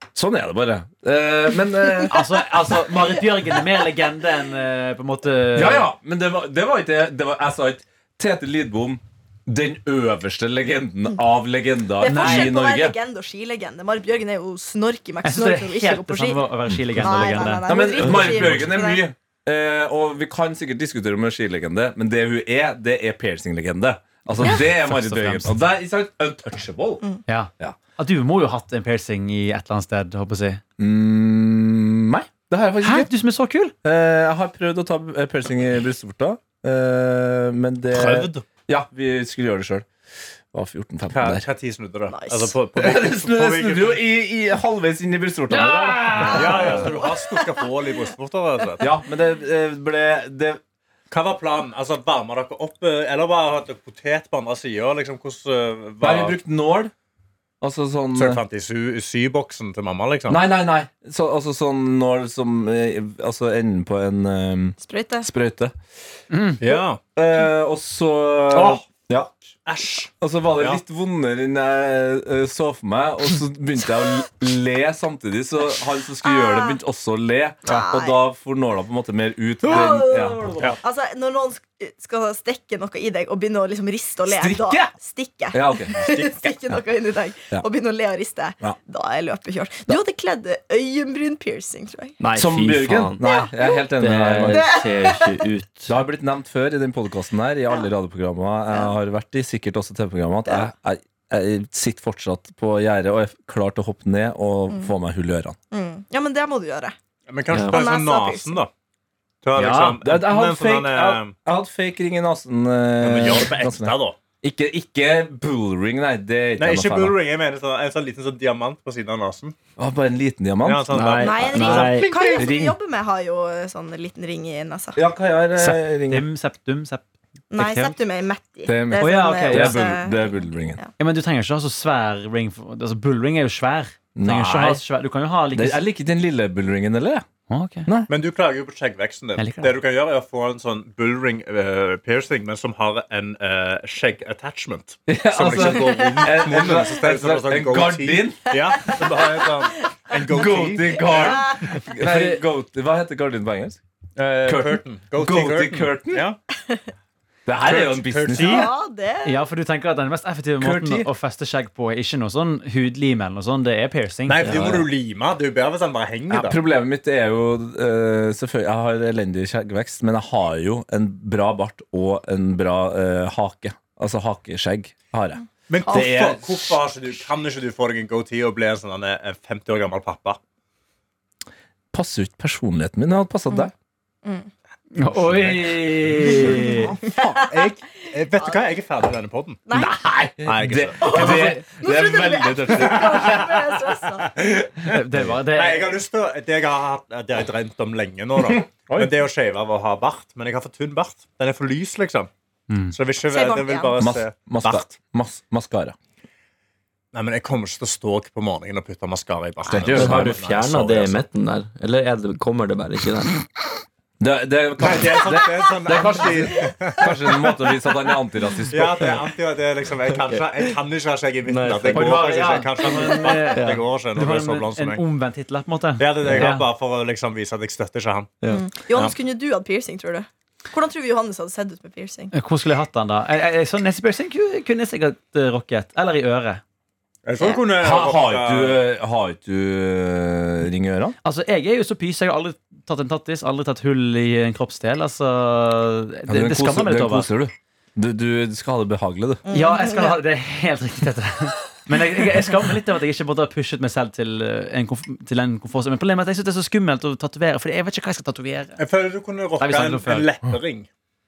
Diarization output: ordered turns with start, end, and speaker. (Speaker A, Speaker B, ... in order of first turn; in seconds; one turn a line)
Speaker A: 0.1-2.6
Speaker B: 2.1-5.9
Speaker A: 5.5-13.0
Speaker C: 12.0-19.0
Speaker B: 12.0-12.5
Speaker B: 15.2-17.9
Speaker A: 17.1-27.0
Speaker B: 24.3-25.5
Speaker B: 27.3-30.6
Speaker A: 30.8-33.1
Speaker B: 32.8-33.7
Speaker A: 33.8-39.9
Speaker D: 37.9-38.4
Speaker A: 40.5-41.4
Speaker D: 41.1-44.0
Speaker C: 42.1-42.5
Speaker A: 42.8-46.9
Speaker B: 45.5-46.9
Speaker D: 46.2-48.9
Speaker A: 48.8-50.6
Speaker D: 51.1-56.4
Speaker A: 56.0-56.9
Speaker A: 57.6-58.4
Speaker D: 58.1-60.4
Speaker A: 60.3-65.7
Speaker C: 64.8-65.3
Speaker B: 66.3-66.6
Speaker D: 66.6-67.0
Speaker A: 67.2-69.3
Speaker D: 68.5-68.8
Speaker D: 69.7-70.8
Speaker A: 70.2-80.6
Speaker C: 76.2-76.8
Speaker C: 77.6-78.2
Speaker C: 79.7-92.2
Speaker A: 84.2-84.9
Speaker A: 85.5-86.8
Speaker D: 85.9-86.3
Speaker E: 92.2-93.4
Speaker A: 92.3-94.7
Speaker C: 93.2-93.8
Speaker E: 94.0-95.9
Speaker C: 94.5-95.4
Speaker A: 95.9-105.6
Speaker C: 100.5-100.7
Speaker C: 105.7-107.0
Speaker D: 107.3-108.7
Speaker E: 107.5-107.8
Speaker C: 107.7-108.6
Speaker D: 109.4-111.3
Speaker B: 109.5-110.0
Speaker A: 109.5-117.2
Speaker D: 113.0-114.2
Speaker D: 116.6-119.5
Speaker A: 119.8-121.2
Speaker D: 120.6-122.5
Speaker E: 120.9-122.1
Speaker C: 121.2-125.0
Speaker A: 122.3-122.7
Speaker A: 125.0-126.3
Speaker B: 125.6-127.9
Speaker C: 127.5-130.9
Speaker A: 128.7-130.8
Speaker B: 129.0-129.8
Speaker B: 131.0-135.8
Speaker A: 134.2-134.8
Speaker A: 135.5-137.2
Speaker B: 137.5-137.9
Speaker D: 138.1-151.8
Speaker B: 139.4-139.8
Speaker A: 145.1-148.5
Speaker C: 146.0-146.3
Speaker A: 150.2-153.8
Speaker C: 151.1-151.6
Speaker B: 152.0-152.3
Speaker D: 154.2-156.4
Speaker A: 154.4-156.3
Speaker A: 157.4-158.7
Speaker D: 157.6-158.7
Speaker C: 158.3-159.4
Speaker B: 159.2-164.5
Speaker A: 160.6-161.1
Speaker D: 164.3-166.6
Speaker E: 164.4-164.8
Speaker A: 166.3-176.8
Speaker D: 175.7-180.4
Speaker A: 181.9-183.7
Speaker B: 184.9-186.9
Speaker A: 186.0-187.4
Speaker D: 187.3-189.6
Speaker C: 189.7-190.0
Speaker A: 189.7-193.4
Speaker D: 190.4-191.6
Speaker C: 191.0-194.3
Speaker D: 192.3-193.6
Speaker D: 194.3-194.9
Speaker B: 194.9-196.0
Speaker D: 195.5-202.3
Speaker A: 198.4-199.2
Speaker B: 202.7-202.9
Speaker D: 202.9-204.9
Speaker C: 203.3-204.0
Speaker A: 204.0-205.9
Speaker D: 207.1-211.2
Speaker A: 209.7-210.4
Speaker E: 209.9-213.4
Speaker A: 214.2-219.2
Speaker D: 214.8-217.3
Speaker D: 218.7-225.0
Speaker E: 220.1-220.7
Speaker E: 221.4-222.4
Speaker B: 221.9-226.7
Speaker E: 223.5-223.8
Speaker D: 226.0-228.3
Speaker E: 226.2-226.5
Speaker E: 228.4-228.7
Speaker C: 228.5-232.3
Speaker B: 232.3-236.6
Speaker D: 237.2-238.8
Speaker C: 237.4-237.6
Speaker A: 237.8-241.1
Speaker B: 241.2-247.3
Speaker A: 246.3-249.4
Speaker C: 249.4-250.2
Speaker B: 249.5-258.8
Speaker D: 258.8-260.9
Speaker B: 259.6-260.3